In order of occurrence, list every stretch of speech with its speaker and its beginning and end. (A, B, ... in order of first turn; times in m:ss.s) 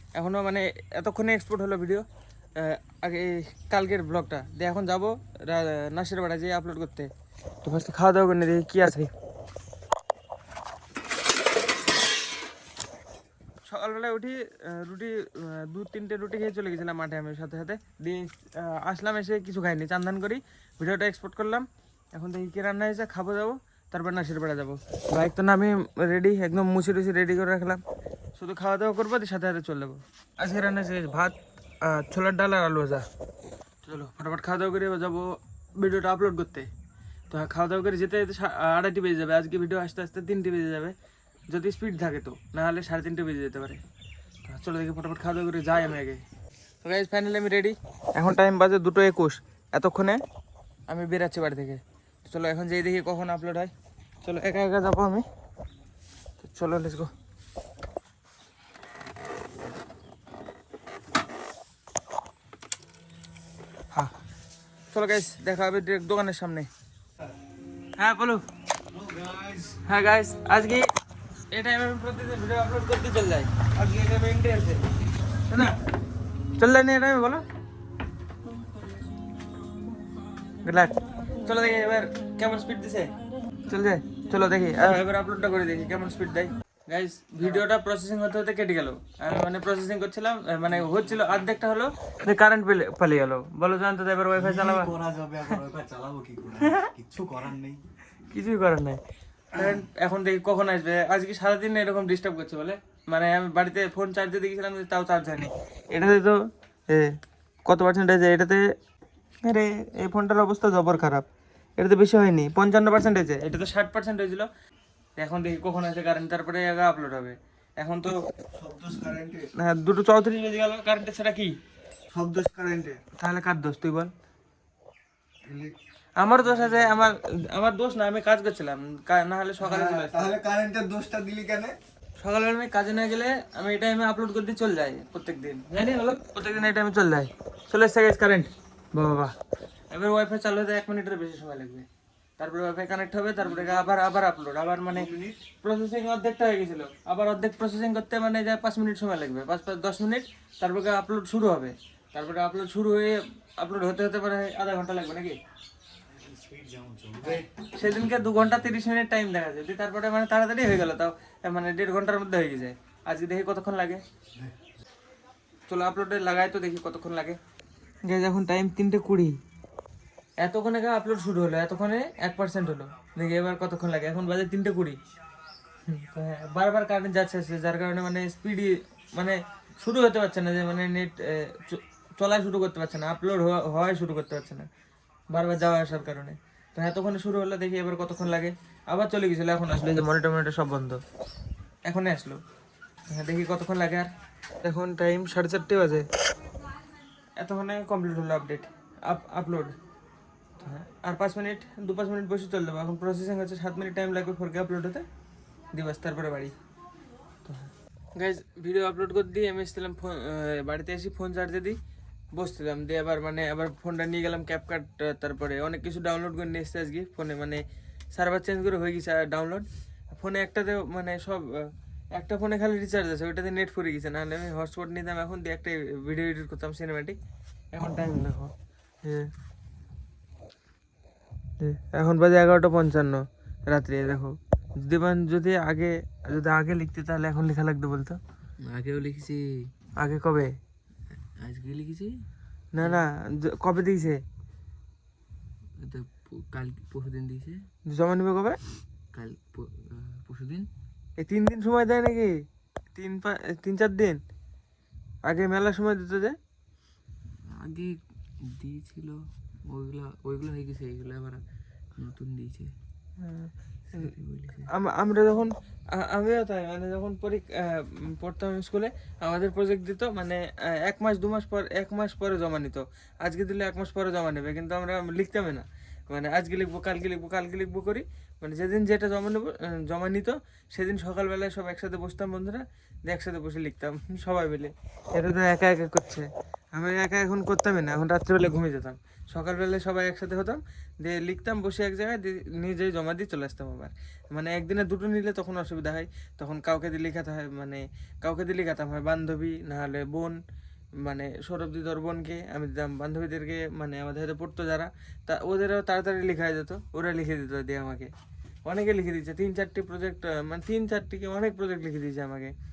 0:00.1-0:07.1 A
0:07.6-0:09.1 A
0:13.6-0:27.8 A
0:28.4-0:33.0 A
0:33.8-0:36.7 A
0:37.3-0:40.9 A
0:41.5-0:43.8 A
0:44.4-0:46.2 A
0:46.8-0:50.2 A
0:50.9-0:53.7 A
0:54.2-0:55.2 A
0:56.4-0:57.1 A
1:04.9-1:06.7 A
1:08.0-1:08.4 A
1:08.9-1:09.8 B
1:09.8-1:10.9 A
1:11.5-1:14.8 A
1:15.5-1:15.7 A
1:16.6-1:17.4 A
1:20.6-1:23.1 A
1:23.7-1:34.9 A
1:34.4-1:37.8 B
1:36.6-1:36.9 A
1:38.2-1:39.0 A
1:39.5-1:48.7 A
1:49.4-1:51.2 A
1:51.8-1:54.5 A
1:55.2-1:58.2 A
1:58.5-1:59.5 B
1:59.5-2:01.6 A
2:02.1-2:03.0 B
2:03.1-2:04.1 A
2:05.4-2:05.7 B
2:06.2-2:10.4 A
2:09.6-2:11.7 B
2:12.2-2:19.3 A
2:19.9-2:21.9 A
2:22.4-2:35.4 A
2:24.9-2:25.4 B
2:36.1-2:37.5 B
2:37.6-2:44.0 A
2:45.7-2:47.4 A
2:48.0-2:49.4 A
2:50.4-2:55.0 A
2:55.9-3:04.7 A
3:05.3-3:11.0 A
3:11.8-3:12.4 A
3:13.1-3:14.1 A
3:14.6-3:16.1 A
3:17.4-3:19.8 A
3:20.6-3:25.0 A
3:25.7-3:26.5 A
3:27.4-3:31.8 A
3:32.3-3:47.2 A
3:47.7-3:49.3 A
3:51.6-3:58.2 A
3:58.6-3:59.7 C
4:00.0-4:00.6 A
4:01.2-4:02.2 C
4:02.7-4:04.2 A
4:02.8-4:03.1 C
4:05.8-4:07.6 C
4:07.8-4:08.6 A
4:09.1-4:10.7 C
4:11.2-4:14.2 A
4:15.2-4:16.4 A
4:17.5-4:21.4 C
4:21.9-4:22.7 C
4:23.2-4:24.1 A
4:23.9-4:24.7 C
4:24.7-5:00.4 A
5:01.0-5:08.1 A
5:08.6-5:12.5 A